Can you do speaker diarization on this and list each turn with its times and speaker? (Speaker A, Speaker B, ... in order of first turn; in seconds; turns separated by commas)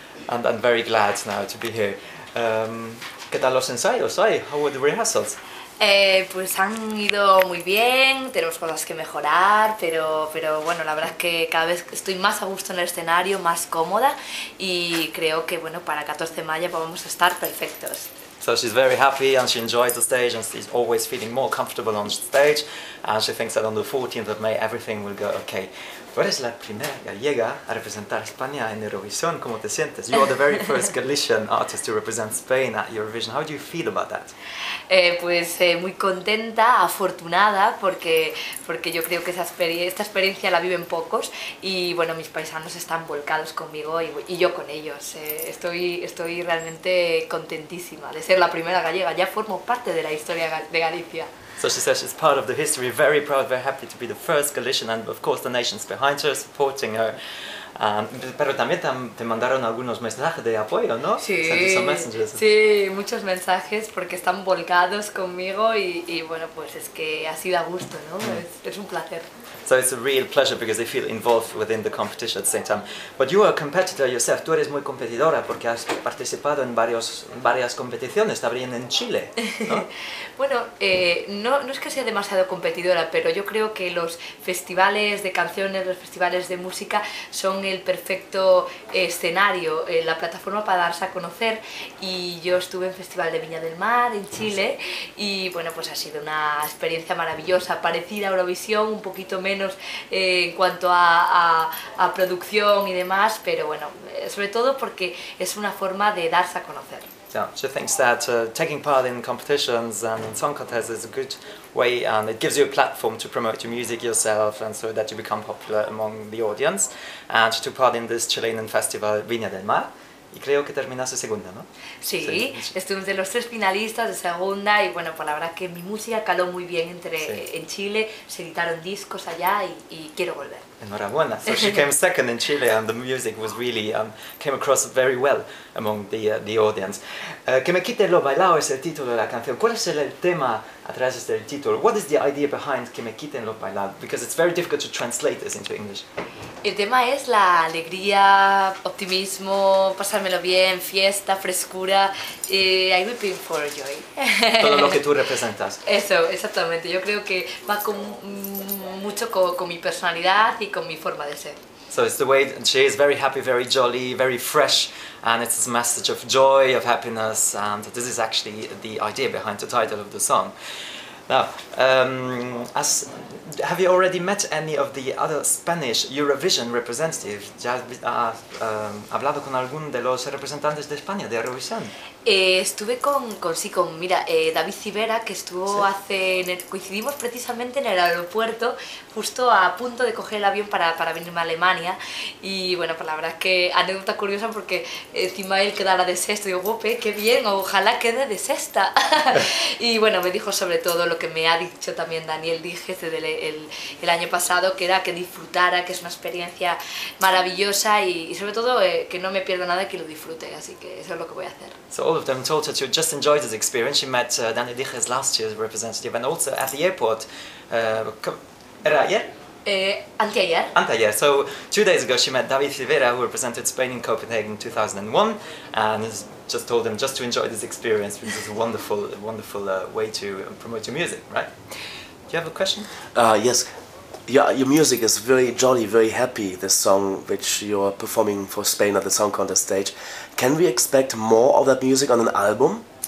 Speaker A: 0.3-5.4, Speaker B: 5.8-18.1, Speaker A: 18.4-34.3, Speaker B: 34.9-51.3, Speaker A: 51.6-62.4, Speaker B: 61.2-69.2, Speaker A: 69.7-79.9, Speaker B: 80.4-107.1, Speaker A: 107.3-121.7, Speaker B: 122.0-130.7, Speaker A: 122.2-122.7, Speaker A: 130.8-146.0, Speaker B: 146.6-155.0, Speaker A: 154.6-155.8, Speaker B: 155.8-161.6, Speaker A: 161.9-170.5, Speaker A: 171.3-181.9, Speaker B: 182.2-211.8, Speaker A: 211.9-219.3, Speaker B: 219.6-220.7, Speaker A: 220.7-231.5, Speaker A: 232.3-232.9, Speaker C: 233.1-233.7, Speaker C: 234.3-242.8